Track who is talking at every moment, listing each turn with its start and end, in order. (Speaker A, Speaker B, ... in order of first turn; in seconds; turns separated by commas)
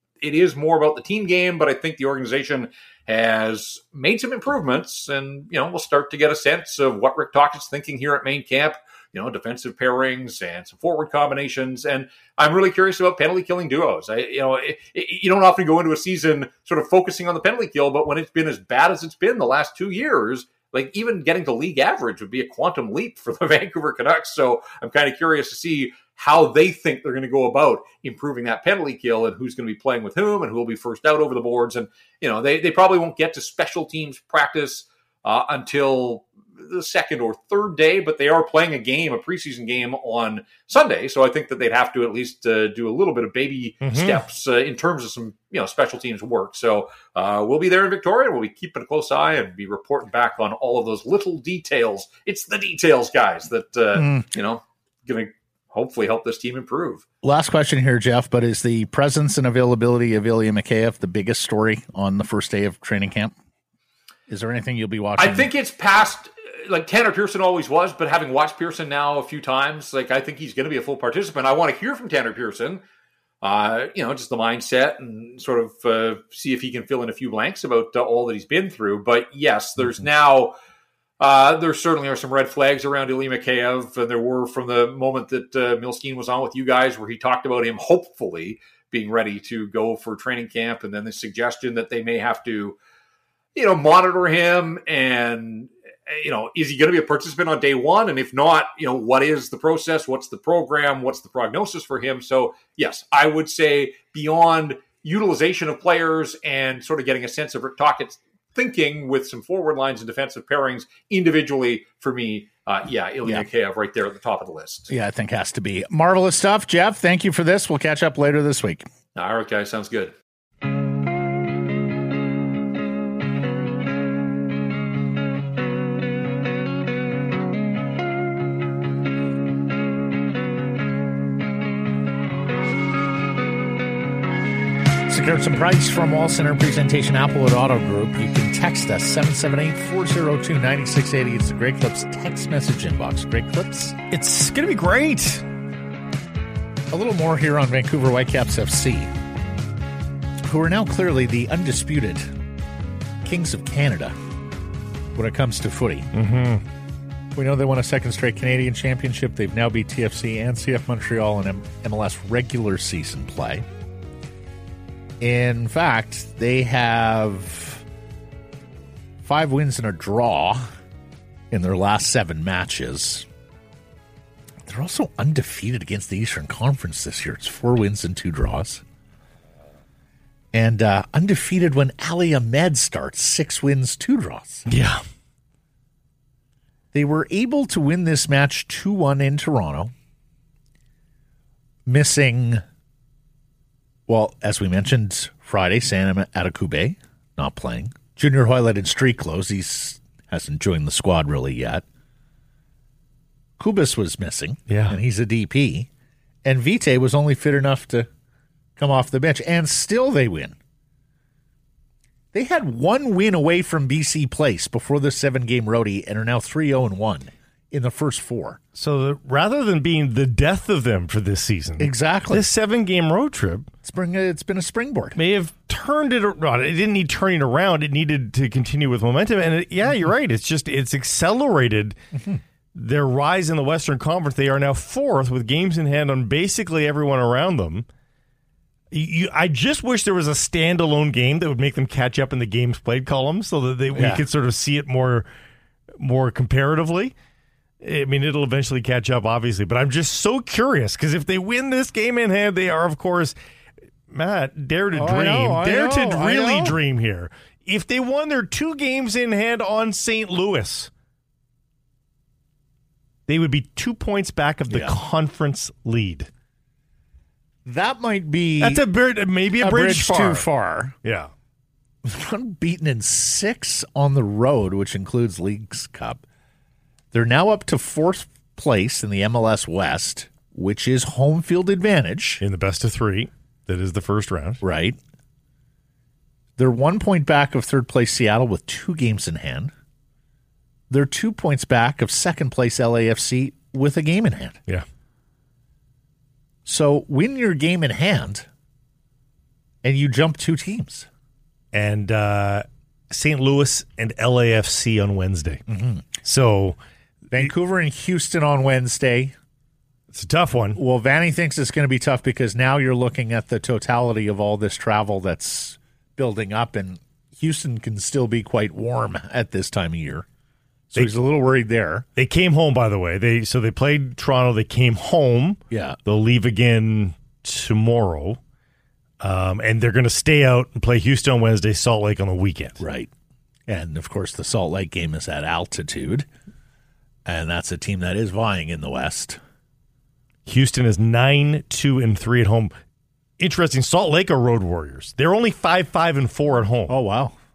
Speaker A: 0.2-57.0, Speaker B: 43.8-44.2, Speaker C: 53.9-54.3, Speaker C: 57.2-63.3, Speaker C: 64.3-65.5, Speaker A: 65.2-72.8, Speaker A: 73.4-80.5, Speaker A: 81.2-92.8, Speaker A: 93.5-114.9, Speaker C: 114.9-118.9, Speaker A: 119.2-120.2, Speaker C: 135.1-144.0, Speaker B: 144.1-145.5, Speaker C: 146.9-149.1, Speaker C: 150.4-152.3, Speaker C: 153.2-154.2, Speaker C: 155.2-156.1, Speaker B: 156.1-156.6, Speaker C: 157.3-163.7, Speaker C: 165.2-167.8, Speaker C: 169.2-170.7, Speaker C: 171.5-173.3, Speaker C: 174.7-178.8, Speaker C: 180.5-184.7, Speaker B: 184.7-185.0, Speaker C: 186.9-189.9, Speaker C: 191.9-192.6, Speaker C: 194.1-201.8, Speaker C: 203.6-205.9, Speaker B: 204.7-205.0, Speaker C: 206.4-208.1, Speaker C: 208.8-210.6, Speaker C: 212.3-218.6, Speaker B: 218.8-223.7, Speaker C: 221.8-222.5, Speaker C: 223.8-225.2, Speaker B: 225.2-232.0, Speaker B: 232.7-237.9, Speaker B: 238.9-245.3, Speaker C: 243.9-244.2, Speaker B: 246.0-247.1, Speaker B: 247.8-253.3, Speaker B: 254.1-260.9, Speaker C: 254.9-256.8, Speaker B: 263.3-266.3, Speaker C: 264.7-265.0, Speaker C: 267.6-268.9, Speaker B: 268.6-270.5, Speaker C: 269.6-270.9, Speaker B: 271.0-271.3, Speaker C: 272.0-276.2, Speaker C: 277.1-282.4, Speaker B: 282.4-284.6, Speaker C: 284.6-285.0, Speaker C: 286.6-289.7, Speaker C: 290.9-294.6, Speaker C: 296.6-298.5, Speaker C: 299.8-301.1, Speaker B: 301.7-305.6, Speaker C: 305.7-306.1, Speaker B: 306.2-306.8, Speaker C: 307.3-309.4, Speaker B: 310.1-310.8, Speaker C: 310.8-320.3, Speaker C: 320.9-322.1, Speaker B: 322.2-328.4, Speaker C: 325.7-326.0, Speaker B: 329.2-332.8, Speaker C: 332.8-333.1, Speaker C: 333.7-336.3, Speaker C: 337.3-339.4, Speaker B: 340.5-342.7, Speaker B: 343.4-347.0, Speaker C: 346.9-347.4